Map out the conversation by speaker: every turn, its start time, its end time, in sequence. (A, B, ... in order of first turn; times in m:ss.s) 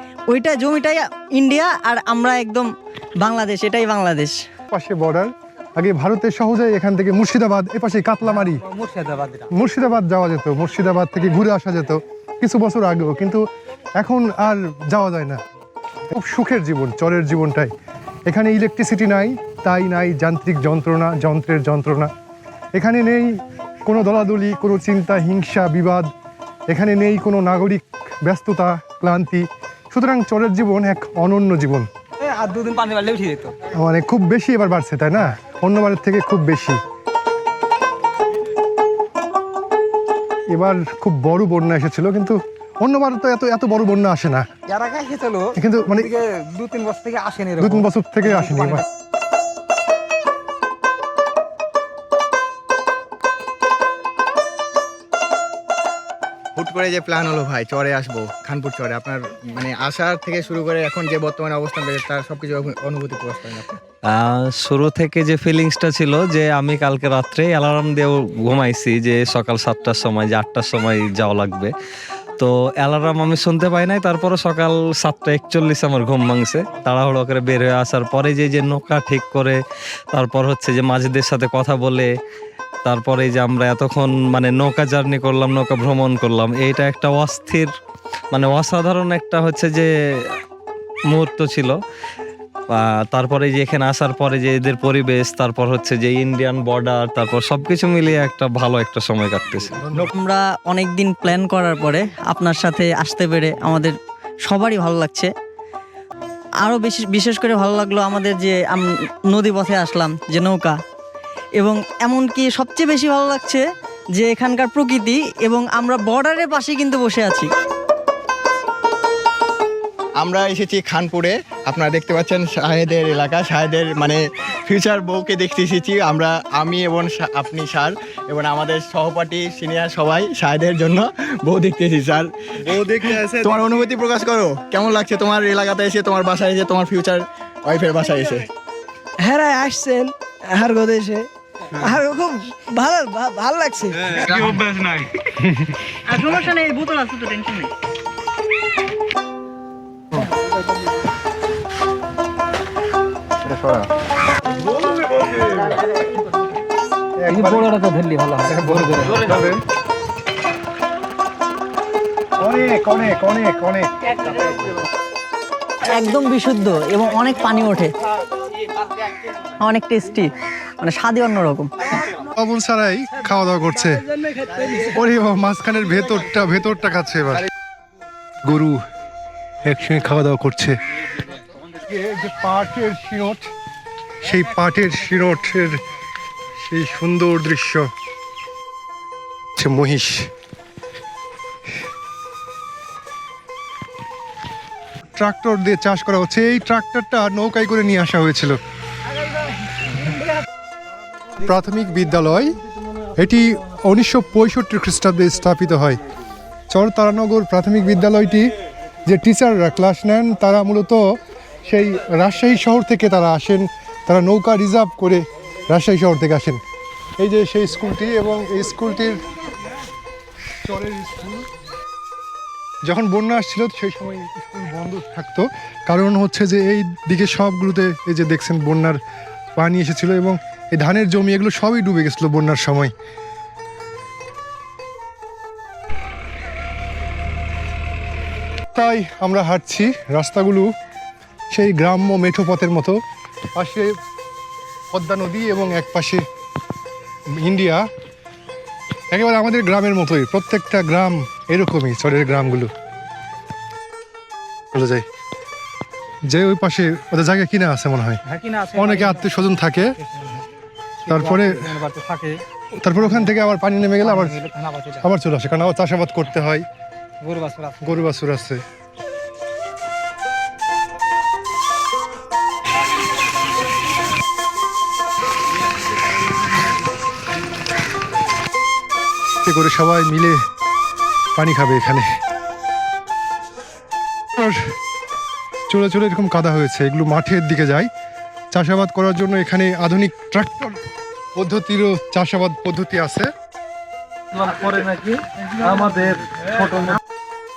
0:00.3-0:02.7 A
0:03.2-0:04.4 A
0:04.7-0:08.6 B
0:08.7-0:09.5 C
0:09.5-0:13.4 B
0:14.0-0:15.4 B
0:16.1-0:17.7 B
0:18.3-0:22.1 B
0:22.8-0:26.1 B
0:26.7-0:31.9 B
0:32.2-0:33.5 C
0:33.7-0:36.8 B
0:40.5-0:44.4 B
0:44.7-0:45.4 C
0:45.6-0:46.1 B
0:46.1-0:47.8 C
0:47.6-0:48.8 B
0:56.6-1:03.8 D
1:04.1-1:11.7 E
1:12.4-1:19.6 E
1:20.1-1:22.1 E
1:22.8-1:27.7 E
1:28.3-1:30.4 E
1:31.1-1:31.8 E
1:32.7-1:40.0 E
1:39.8-1:40.1 B
1:40.0-1:44.0 A
1:44.5-1:45.3 A
1:46.6-1:50.8 A
1:51.6-1:53.6 A
1:54.2-1:57.5 A
2:00.2-2:18.4 D
2:12.6-2:13.6 B
2:19.2-2:21.3 F
2:21.8-2:24.9 F
2:24.2-2:24.6 D
2:26.1-2:27.7 A
2:37.2-2:37.7 B
2:37.3-2:39.2 C
2:38.5-2:39.6 B
2:42.4-2:43.9 B
2:45.8-2:47.9 A
2:49.6-2:51.9 A
2:52.4-2:54.1 B
2:54.7-2:57.5 B
2:58.4-2:58.8 B
2:59.6-3:00.8 B
3:01.9-3:03.5 B
3:04.2-3:05.8 B
3:06.6-3:07.9 B
3:09.6-3:10.3 B
3:15.2-3:18.6 B
3:21.4-3:22.6 B
3:23.2-3:26.0 B
3:26.7-3:28.5 B
3:29.1-3:31.0 B
3:31.6-3:36.6 B
3:37.2-3:39.2 B
3:40.6-3:41.5 B
3:42.8-3:49.0 B
3:49.6-3:52.9 B
3:58.7-4:00.7 B
4:01.5-4:03.0 B
4:03.6-4:03.9 B
4:04.9-4:06.2 B
4:07.4-4:07.8 B
4:09.1-4:12.7 B
4:14.7-4:15.0 B
4:16.3-4:18.2 B
4:18.4-4:19.2 C
4:18.7-4:20.0 B
4:21.1-4:21.8 B
4:21.1-4:22.4 C
4:22.8-4:24.4 B
4:24.1-4:25.0 C
4:25.0-4:26.7 B
4:27.3-4:27.8 C
4:27.8-4:28.6 B
4:39.4-4:40.4 B
4:41.4-4:42.1 B
4:44.4-4:44.6 B
4:45.7-4:47.9 B
4:48.5-4:50.8 B
4:51.4-4:53.3 B